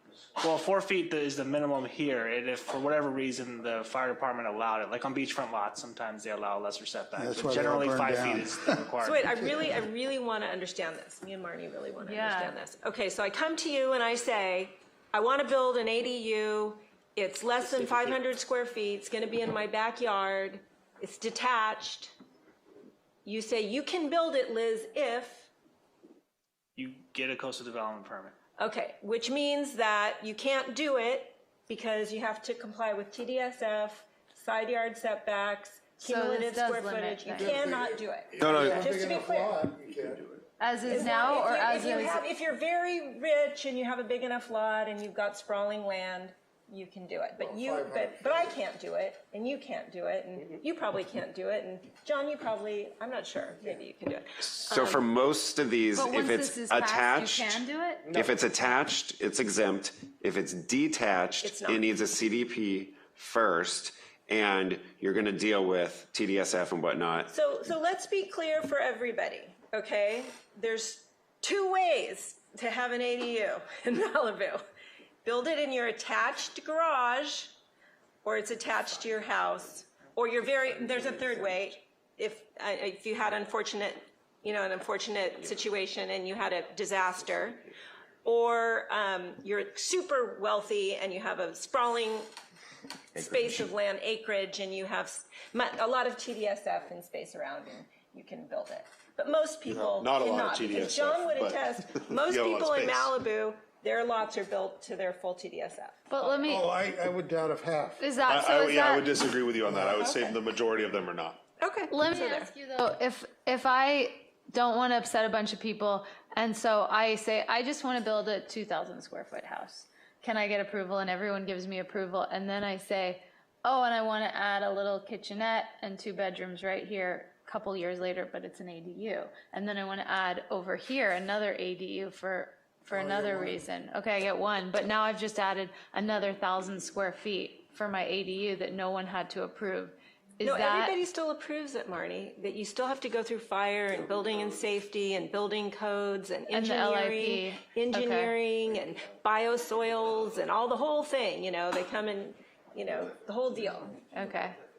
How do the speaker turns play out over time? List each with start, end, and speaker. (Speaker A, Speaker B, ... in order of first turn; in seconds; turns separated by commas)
Speaker A: 0.4-9.4, Speaker B: 7.2-8.8, Speaker C: 9.0-22.1, Speaker D: 12.0-12.5, Speaker C: 23.2-25.5, Speaker A: 26.8-28.3, Speaker C: 28.6-39.7, Speaker D: 36.0-37.6, Speaker B: 37.4-40.5, Speaker E: 38.4-38.7, Speaker D: 40.6-42.2, Speaker C: 40.9-55.0, Speaker B: 41.0-41.5, Speaker B: 47.4-48.6, Speaker F: 54.5-67.3, Speaker D: 56.0-58.1, Speaker C: 61.4-61.9, Speaker C: 67.3-74.6, Speaker C: 75.2-77.5, Speaker C: 78.2-87.7, Speaker C: 88.2-92.3, Speaker C: 93.2-106.0, Speaker E: 99.7-103.1, Speaker D: 106.1-106.7, Speaker B: 106.3-108.1, Speaker D: 108.0-109.1, Speaker E: 108.2-111.4, Speaker C: 111.6-112.5, Speaker D: 111.9-141.0, Speaker B: 132.9-133.6, Speaker C: 140.4-154.0, Speaker D: 146.5-148.4, Speaker D: 154.1-154.6